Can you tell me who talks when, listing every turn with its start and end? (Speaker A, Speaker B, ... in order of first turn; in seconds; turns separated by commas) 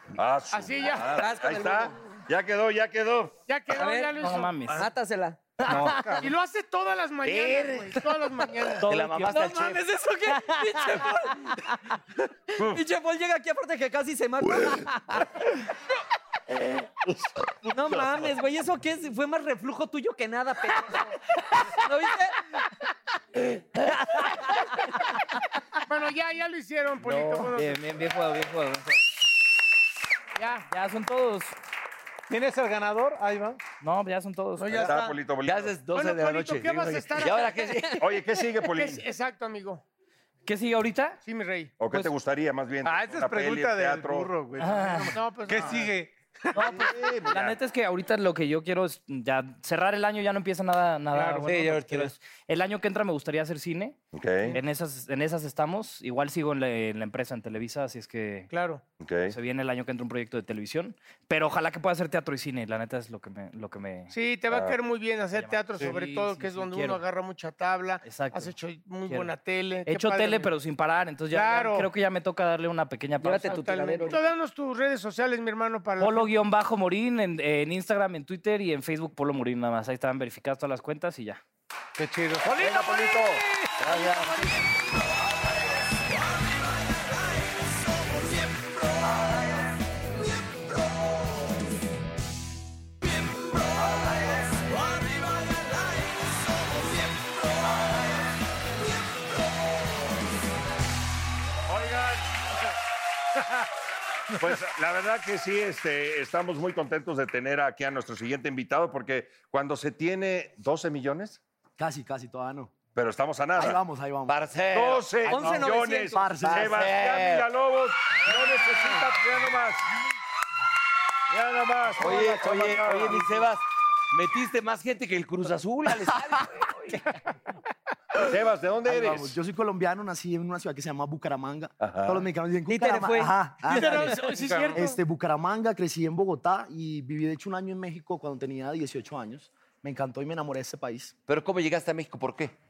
Speaker A: 0.2-3.4, Speaker B: 0.5-1.2, Speaker C: 1.2-1.9, Speaker B: 3.5-4.7, Speaker C: 3.7-6.2, Speaker D: 4.2-4.9, Speaker D: 5.6-6.1, Speaker B: 6.2-8.9, Speaker E: 7.2-8.1, Speaker E: 8.8-9.8, Speaker D: 8.8-9.4, Speaker C: 9.3-11.8, Speaker C: 12.5-15.3, Speaker C: 16.5-16.9, Speaker C: 17.6-22.4, Speaker A: 17.8-18.3, Speaker C: 24.1-24.4, Speaker B: 25.9-27.9, Speaker D: 27.1-29.0, Speaker B: 30.4-30.7, Speaker D: 30.7-31.5, Speaker F: 32.3-33.6, Speaker D: 33.8-35.0, Speaker B: 34.6-35.2, Speaker A: 34.8-35.7, Speaker E: 35.4-38.0, Speaker B: 35.9-37.7, Speaker A: 38.0-39.0, Speaker B: 38.6-39.8, Speaker D: 40.5-41.2, Speaker B: 41.2-41.8, Speaker A: 41.8-44.4, Speaker F: 42.8-46.8, Speaker D: 44.6-45.1, Speaker B: 45.1-45.9, Speaker D: 46.5-54.0, Speaker B: 51.1-51.7, Speaker F: 51.5-52.1, Speaker A: 54.1-54.6, Speaker D: 54.5-58.5, Speaker B: 58.5-58.8, Speaker A: 59.0-59.4, Speaker D: 59.3-64.1, Speaker B: 64.1-70.5, Speaker A: 64.5-64.8, Speaker D: 65.3-67.0, Speaker D: 68.0-68.5, Speaker D: 69.1-69.3, Speaker D: 69.9-73.7, Speaker B: 71.3-71.9, Speaker C: 73.2-74.2, Speaker B: 73.4-76.3, Speaker D: 76.0-81.4, Speaker F: 82.0-82.7, Speaker E: 82.5-84.5, Speaker B: 82.9-83.2, Speaker B: 83.8-84.5, Speaker A: 101.7-102.2, Speaker A: 104.4-111.4, Speaker G: 111.8-112.8, Speaker A: 112.9-113.8, Speaker G: 113.6-114.4, Speaker E: 114.3-115.7, Speaker A: 114.7-119.9, Speaker C: 115.3-116.3, Speaker G: 116.1-116.9, Speaker E: 116.5-117.5, Speaker A: 121.3-123.5, Speaker E: 122.0-127.0, Speaker A: 128.2-129.4, Speaker G: 128.9-134.2, Speaker A: 131.8-132.3, Speaker C: 132.7-134.4, Speaker B: 133.6-135.0, Speaker F: 134.3-134.8, Speaker G: 134.8-141.1, Speaker E: 141.3-142.5